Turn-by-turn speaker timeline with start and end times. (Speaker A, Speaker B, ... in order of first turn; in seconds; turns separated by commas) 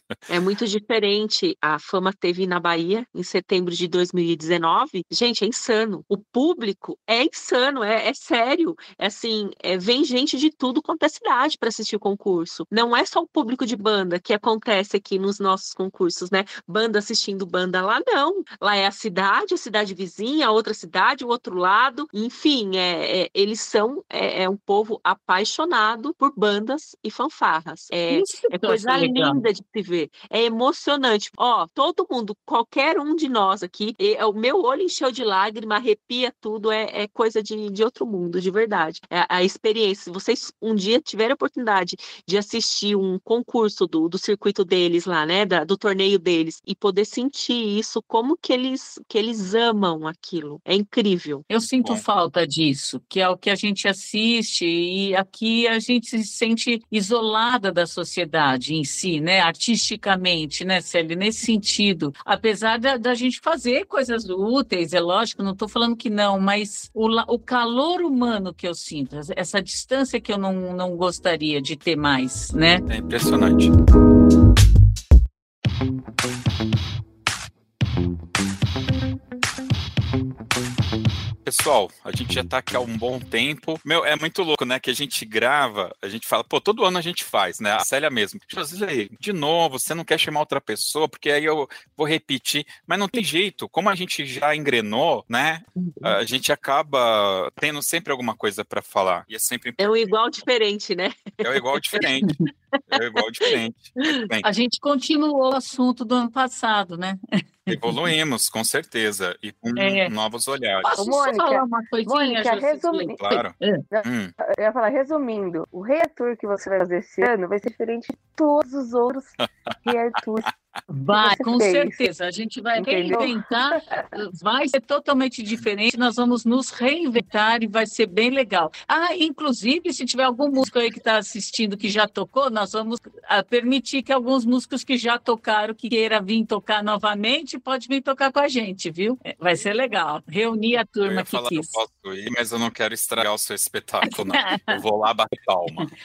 Speaker A: 0.3-51.4, Speaker B: 28.1-29.4, Speaker B: 51.5-72.8, Speaker C: 72.9-73.7, Speaker C: 81.4-100.0, Speaker A: 99.8-102.0, Speaker C: 101.4-102.3, Speaker C: 102.9-104.4, Speaker A: 104.0-104.2, Speaker B: 104.4-108.1, Speaker C: 107.7-110.9, Speaker B: 109.8-110.1, Speaker B: 110.8-113.8, Speaker D: 111.0-113.2, Speaker C: 113.2-114.3, Speaker D: 113.9-120.5, Speaker B: 120.9-141.8, Speaker D: 121.1-122.0, Speaker D: 122.8-124.1, Speaker C: 141.0-145.9, Speaker B: 144.1-144.8